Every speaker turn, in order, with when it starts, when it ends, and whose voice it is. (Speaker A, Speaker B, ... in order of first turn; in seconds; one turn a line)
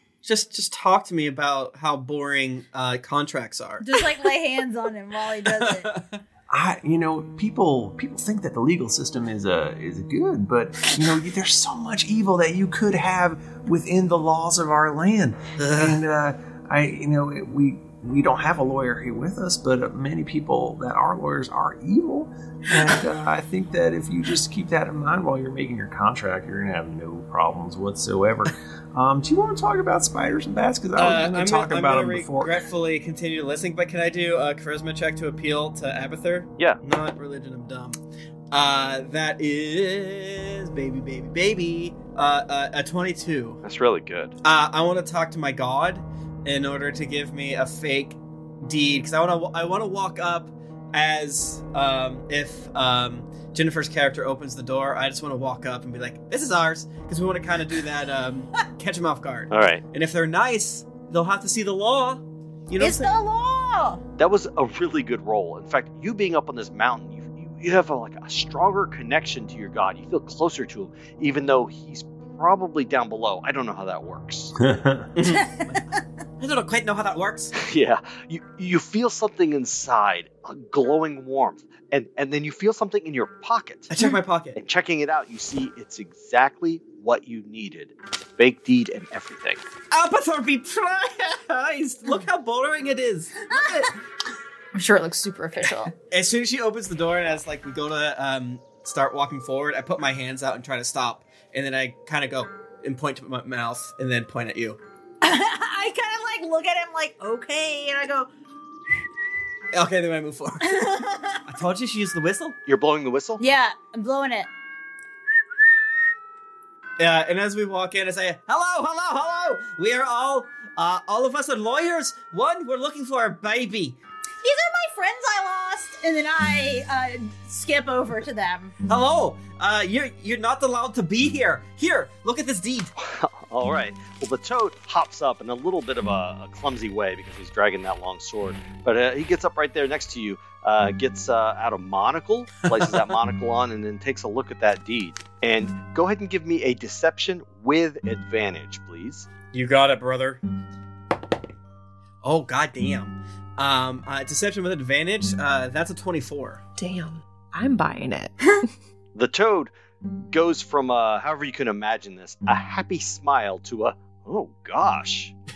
Speaker A: 0.2-4.0
Speaker B: 3.8-5.9
Speaker A: 5.5-6.2
Speaker C: 6.5-32.6
Speaker A: 15.6-16.0
Speaker A: 31.0-38.0
Speaker A: 38.5-43.6
Speaker D: 43.6-44.4
Speaker A: 44.4-63.1
Speaker D: 59.5-59.8
Speaker B: 62.8-64.0
Speaker D: 64.2-74.5
Speaker C: 74.6-75.1
Speaker A: 75.2-75.8
Speaker B: 75.2-75.8
Speaker A: 76.4-77.5
Speaker D: 77.5-83.9
Speaker A: 83.9-84.6
Speaker D: 84.5-89.6
Speaker A: 89.9-93.9
Speaker B: 93.5-93.9
Speaker B: 94.8-95.9
Speaker E: 94.8-95.9
Speaker A: 96.1-104.8
Speaker B: 105.2-108.3
Speaker A: 109.7-110.8
Speaker B: 110.6-111.5
Speaker A: 111.5-112.6
Speaker D: 112.7-113.4
Speaker B: 113.4-114.5
Speaker A: 117.0-124.0
Speaker B: 124.4-128.7
Speaker A: 128.9-132.9
Speaker D: 133.0-149.3
Speaker A: 149.5-150.4
Speaker A: 152.2-156.6
Speaker E: 156.8-158.7
Speaker D: 159.2-159.7
Speaker D: 160.3-165.3